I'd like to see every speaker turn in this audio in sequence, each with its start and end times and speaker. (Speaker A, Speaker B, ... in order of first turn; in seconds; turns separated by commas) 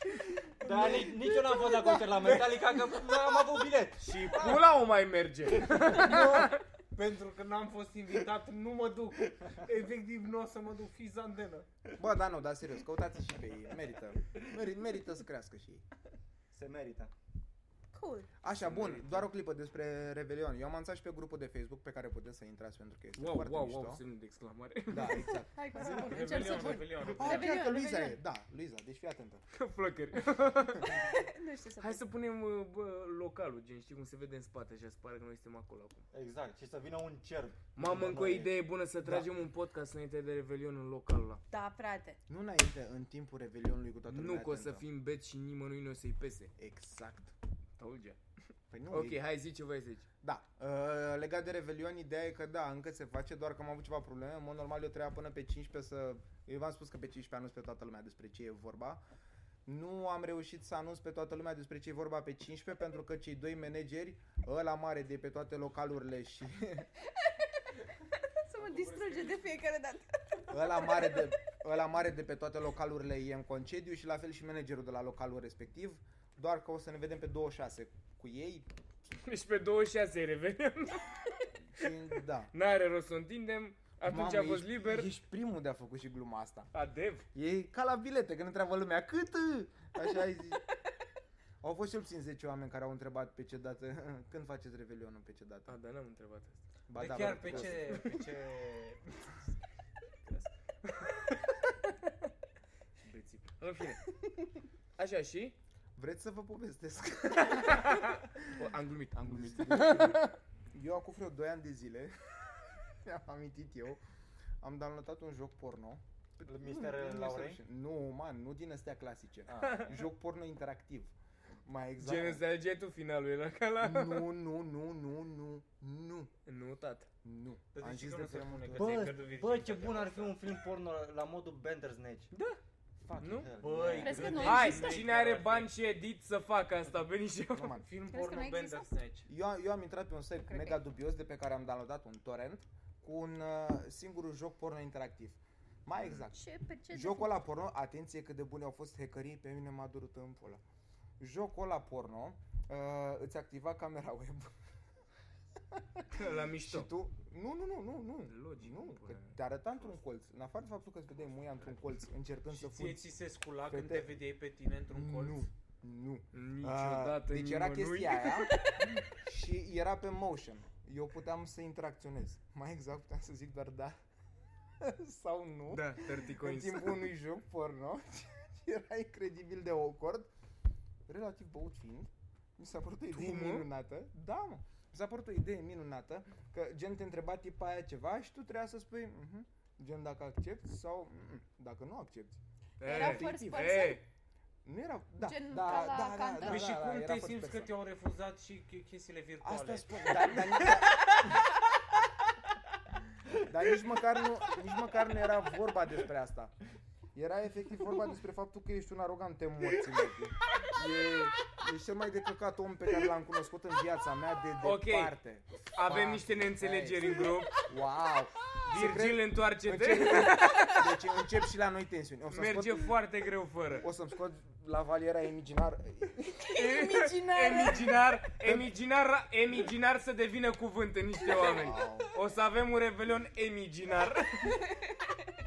Speaker A: 0.6-4.3, Speaker B: 0.7-2.4, Speaker C: 4.0-6.6, Speaker B: 4.3-4.6, Speaker B: 5.7-11.7, Speaker D: 12.0-15.8, Speaker A: 16.5-17.1, Speaker E: 17.9-18.3, Speaker D: 18.4-24.0, Speaker C: 18.6-19.2, Speaker C: 23.2-25.4, Speaker D: 24.9-26.2, Speaker E: 25.6-28.2, Speaker B: 25.8-27.6, Speaker D: 27.0-29.4, Speaker C: 29.5-31.0, Speaker E: 30.8-32.0, Speaker C: 31.8-36.0, Speaker A: 36.1-38.5, Speaker C: 37.8-41.4, Speaker D: 39.0-39.3, Speaker E: 41.5-42.2, Speaker D: 42.3-44.9, Speaker C: 44.1-46.5, Speaker D: 46.6-47.4, Speaker C: 47.8-48.2, Speaker D: 48.7-49.2, Speaker C: 48.9-50.1, Speaker D: 50.2-59.0, Speaker D: 59.7-66.9, Speaker E: 68.4-71.3, Speaker D: 70.5-78.7, Speaker C: 79.2-81.2, Speaker D: 81.7-82.5, Speaker C: 82.5-85.1, Speaker D: 84.0-86.7, Speaker C: 86.7-87.2, Speaker D: 87.3-90.6, Speaker D: 91.6-95.8, Speaker C: 95.7-96.6, Speaker D: 96.9-98.1, Speaker B: 97.0-99.5, Speaker C: 97.2-98.0, Speaker C: 100.9-101.4, Speaker C: 103.0-104.1, Speaker C: 105.0-105.6, Speaker D: 106.0-108.4, Speaker C: 107.7-110.3, Speaker D: 109.2-114.0, Speaker D: 114.6-121.1, Speaker A: 116.5-117.6, Speaker A: 119.5-119.8, Speaker D: 121.7-122.4, Speaker C: 122.0-124.3, Speaker D: 123.8-126.3, Speaker C: 126.5-127.1, Speaker D: 127.2-129.2, Speaker B: 127.7-130.4, Speaker A: 128.7-132.3, Speaker D: 133.1-133.4, Speaker C: 133.2-133.5, Speaker A: 133.2-134.6, Speaker B: 133.6-135.7, Speaker E: 133.9-135.0, Speaker C: 134.3-137.8, Speaker D: 137.6-137.9, Speaker B: 137.8-139.3, Speaker E: 138.1-138.9, Speaker D: 139.3-150.6, Speaker E: 140.5-140.8, Speaker E: 146.3-147.4, Speaker D: 151.2-154.5, Speaker D: 155.7-163.0, Speaker C: 156.1-156.9, Speaker C: 158.3-159.4, Speaker B: 162.5-165.5, Speaker D: 163.7-164.2, Speaker D: 164.9-174.0, Speaker C: 166.3-168.8, Speaker D: 174.8-180.3, Speaker C: 175.7-177.1, Speaker D: 181.1-193.9, Speaker C: 183.1-183.7, Speaker C: 192.8-194.0, Speaker E: 192.8-194.0, Speaker D: 194.7-197.7, Speaker E: 195.2-196.6, Speaker B: 196.4-200.7, Speaker D: 199.4-201.1, Speaker D: 203.4-206.6, Speaker D: 207.2-222.9, Speaker C: 214.6-215.2, Speaker C: 215.7-217.7, Speaker C: 218.6-220.9, Speaker C: 222.3-223.9, Speaker D: 223.8-226.4, Speaker E: 226.4-228.0, Speaker C: 226.5-234.6, Speaker D: 228.4-228.7, Speaker D: 231.3-232.1, Speaker E: 234.6-235.0